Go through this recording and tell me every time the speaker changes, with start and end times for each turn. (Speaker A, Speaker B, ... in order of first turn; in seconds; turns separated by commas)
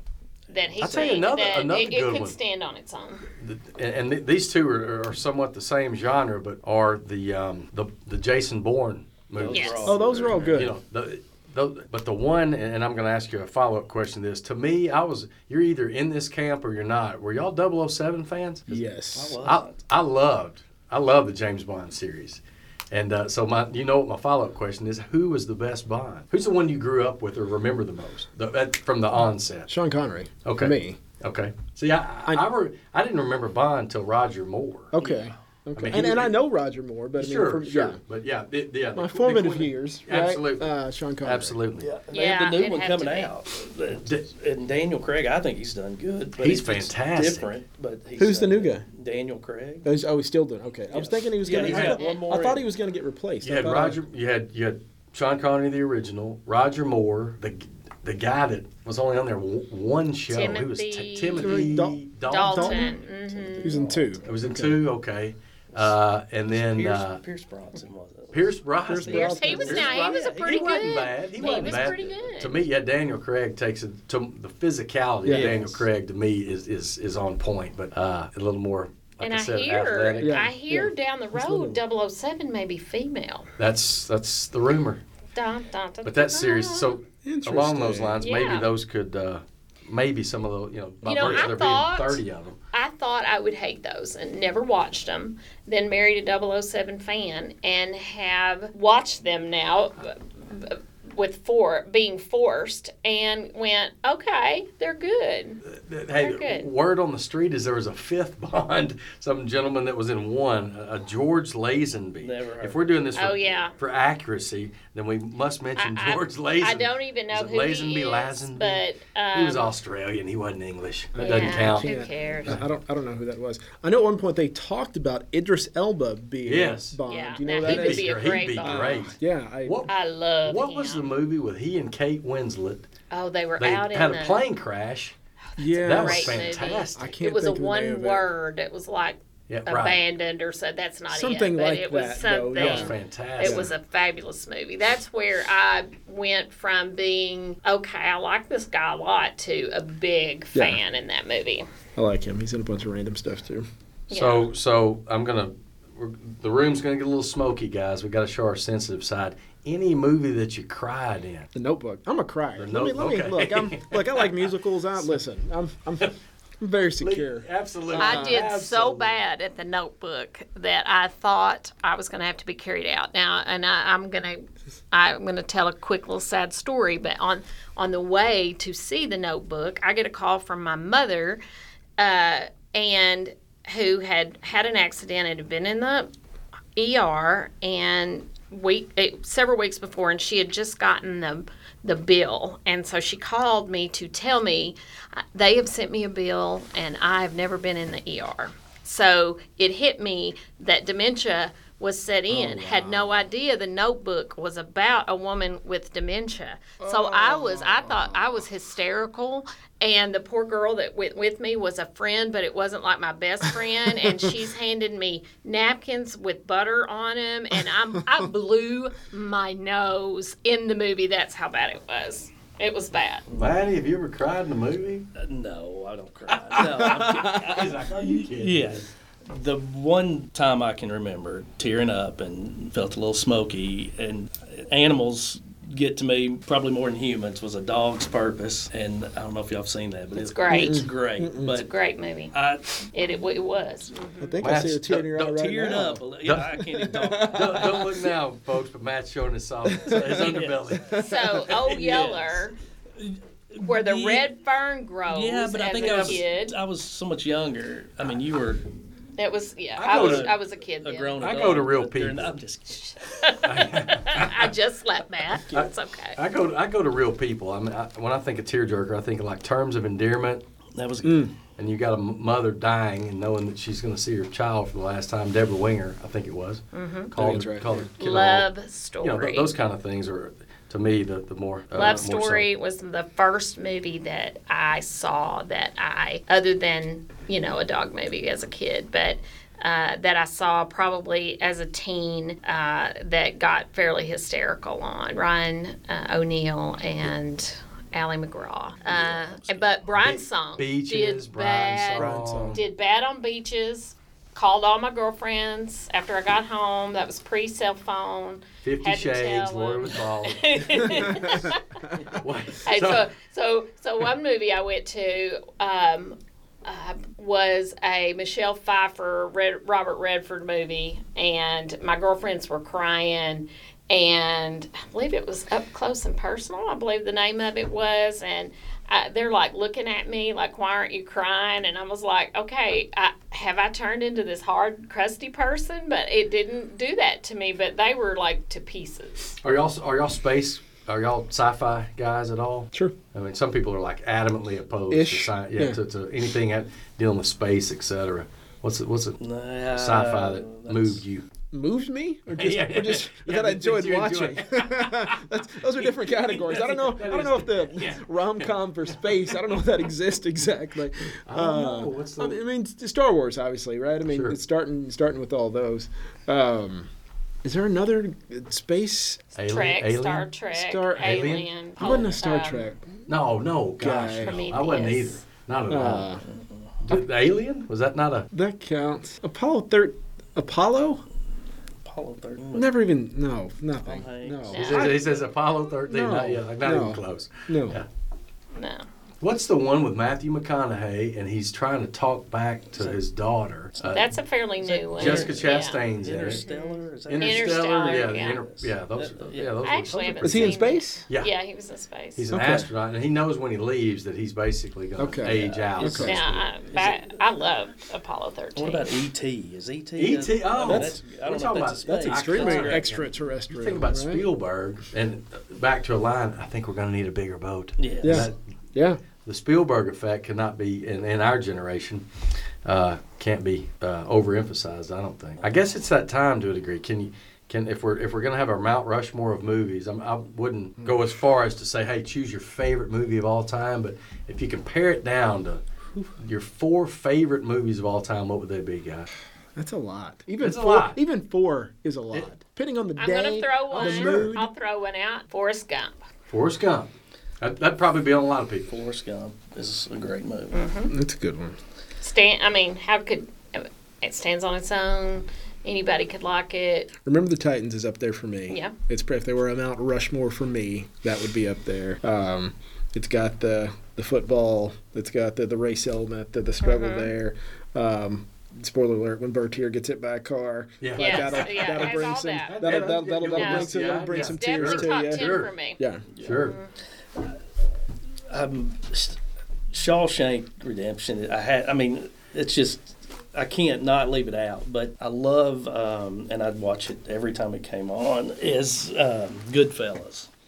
Speaker A: 0.5-3.3, Speaker B: 0.8-1.2, Speaker C: 0.8-2.4, Speaker C: 3.4-18.8, Speaker B: 9.3-10.7, Speaker A: 9.5-9.9, Speaker D: 9.8-10.7, Speaker D: 18.7-19.4, Speaker B: 19.1-19.8, Speaker C: 19.4-29.7, Speaker D: 29.7-31.0, Speaker C: 30.4-34.9, Speaker D: 34.9-38.0, Speaker B: 35.0-35.3, Speaker C: 35.8-36.4, Speaker C: 37.2-40.7, Speaker D: 38.9-41.6, Speaker C: 41.2-41.9, Speaker B: 41.8-49.9, Speaker A: 42.1-43.3, Speaker C: 46.4-47.5, Speaker D: 48.2-48.8, Speaker D: 49.8-54.0, Speaker B: 50.9-52.6, Speaker A: 51.7-52.2, Speaker C: 53.4-63.0, Speaker A: 60.3-63.8, Speaker D: 61.4-62.9, Speaker B: 63.2-64.2, Speaker D: 63.6-64.8, Speaker C: 64.2-67.2, Speaker B: 66.5-72.1, Speaker C: 68.3-80.4, Speaker D: 68.8-70.2, Speaker A: 69.0-72.6, Speaker D: 75.2-75.8, Speaker B: 75.2-75.8, Speaker A: 79.2-83.5, Speaker D: 80.2-81.8, Speaker C: 83.6-85.0, Speaker A: 85.3-86.9, Speaker C: 86.0-92.6, Speaker D: 87.2-88.2, Speaker A: 88.2-88.7, Speaker A: 91.0-105.6, Speaker C: 105.6-121.9, Speaker A: 106.2-106.7, Speaker B: 112.2-113.0, Speaker A: 113.1-113.8, Speaker A: 115.8-119.7, Speaker D: 121.1-129.8, Speaker A: 121.2-122.6, Speaker C: 126.5-127.0, Speaker A: 127.1-129.1, Speaker C: 127.6-132.9, Speaker A: 129.9-131.1, Speaker A: 133.1-134.4, Speaker C: 133.6-135.1, Speaker D: 135.6-138.2, Speaker A: 135.6-151.7, Speaker C: 135.8-137.1, Speaker C: 139.5-140.0, Speaker D: 141.1-143.7, Speaker C: 142.5-143.7, Speaker D: 150.5-150.8, Speaker D: 151.9-153.7, Speaker A: 154.1-154.5, Speaker C: 154.1-161.5, Speaker D: 161.5-168.5, Speaker C: 162.6-164.3, Speaker C: 167.0-169.2, Speaker A: 167.9-181.4, Speaker A: 182.0-186.1, Speaker A: 186.8-223.2, Speaker D: 202.3-202.8, Speaker D: 206.8-208.3, Speaker B: 223.3-223.6, Speaker C: 223.4-225.1, Speaker B: 225.2-241.7, Speaker C: 226.3-228.8, Speaker D: 226.8-227.4, Speaker A: 240.2-240.8, Speaker D: 240.5-241.6, Speaker A: 241.4-242.3, Speaker B: 242.3-242.8, Speaker A: 242.9-244.3, Speaker D: 244.2-246.0, Speaker C: 244.4-245.2, Speaker B: 244.9-248.1, Speaker C: 246.2-246.6, Speaker D: 246.7-247.9, Speaker C: 247.2-251.9, Speaker D: 249.7-250.4, Speaker B: 249.8-254.3, Speaker A: 250.9-252.5, Speaker A: 253.6-256.5, Speaker B: 255.1-258.6, Speaker C: 255.8-256.2, Speaker A: 259.2-261.2, Speaker C: 259.8-260.3, Speaker B: 259.9-263.3, Speaker C: 261.2-262.4, Speaker A: 262.8-266.2, Speaker C: 263.4-264.5, Speaker C: 265.5-270.4, Speaker B: 270.7-271.3, Speaker D: 271.0-271.3, Speaker C: 271.6-278.5, Speaker A: 276.7-277.1, Speaker D: 277.1-277.9, Speaker A: 278.0-279.5, Speaker C: 279.0-282.4, Speaker A: 281.7-339.4, Speaker B: 298.8-299.7, Speaker C: 300.0-302.6, Speaker D: 301.9-302.6, Speaker C: 308.6-311.4, Speaker D: 311.1-311.4, Speaker C: 312.1-313.1, Speaker C: 339.4-349.2, Speaker D: 344.9-345.8, Speaker B: 349.2-351.0, Speaker C: 349.7-351.3, Speaker D: 351.5-366.9, Speaker C: 352.3-355.2, Speaker C: 355.8-359.6, Speaker C: 361.2-362.4, Speaker C: 364.1-364.3, Speaker D: 367.4-369.3, Speaker C: 369.3-370.3, Speaker A: 369.5-372.7, Speaker D: 370.5-371.2, Speaker C: 370.9-372.1, Speaker D: 371.8-373.0, Speaker C: 373.1-376.1, Speaker D: 373.8-374.4, Speaker A: 374.2-375.2, Speaker D: 375.7-376.2, Speaker B: 376.2-376.7, Speaker C: 376.8-378.3, Speaker D: 378.3-381.0, Speaker B: 381.8-382.8, Speaker D: 382.5-385.1, Speaker B: 383.8-384.9, Speaker A: 384.5-385.0, Speaker C: 384.5-387.9, Speaker D: 385.9-387.8, Speaker A: 388.6-388.9, Speaker C: 389.2-394.1, Speaker A: 393.9-398.4, Speaker B: 394.6-399.6, Speaker C: 394.9-396.4, Speaker C: 397.1-401.3, Speaker A: 399.6-402.2, Speaker D: 400.2-401.0, Speaker C: 402.1-406.3, Speaker D: 402.3-402.7, Speaker D: 405.0-406.3, Speaker B: 405.2-407.2, Speaker A: 406.0-409.0, Speaker B: 408.6-412.8, Speaker C: 410.0-418.4, Speaker D: 410.6-411.0, Speaker D: 411.9-414.2, Speaker B: 417.8-418.3, Speaker D: 418.0-419.0, Speaker C: 419.2-422.1, Speaker C: 422.6-435.6, Speaker C: 436.2-439.1, Speaker D: 439.5-444.5, Speaker C: 440.4-441.0, Speaker A: 443.0-445.9, Speaker C: 443.7-444.4, Speaker C: 446.3-448.7, Speaker B: 448.7-450.6, Speaker A: 450.5-450.9, Speaker D: 450.9-451.6, Speaker A: 452.0-456.9, Speaker D: 457.0-476.0, Speaker A: 458.5-458.7, Speaker A: 466.6-467.1, Speaker C: 470.8-475.5, Speaker A: 470.9-476.7, Speaker B: 476.1-476.5, Speaker C: 476.2-476.6, Speaker B: 478.3-479.2, Speaker B: 479.7-490.3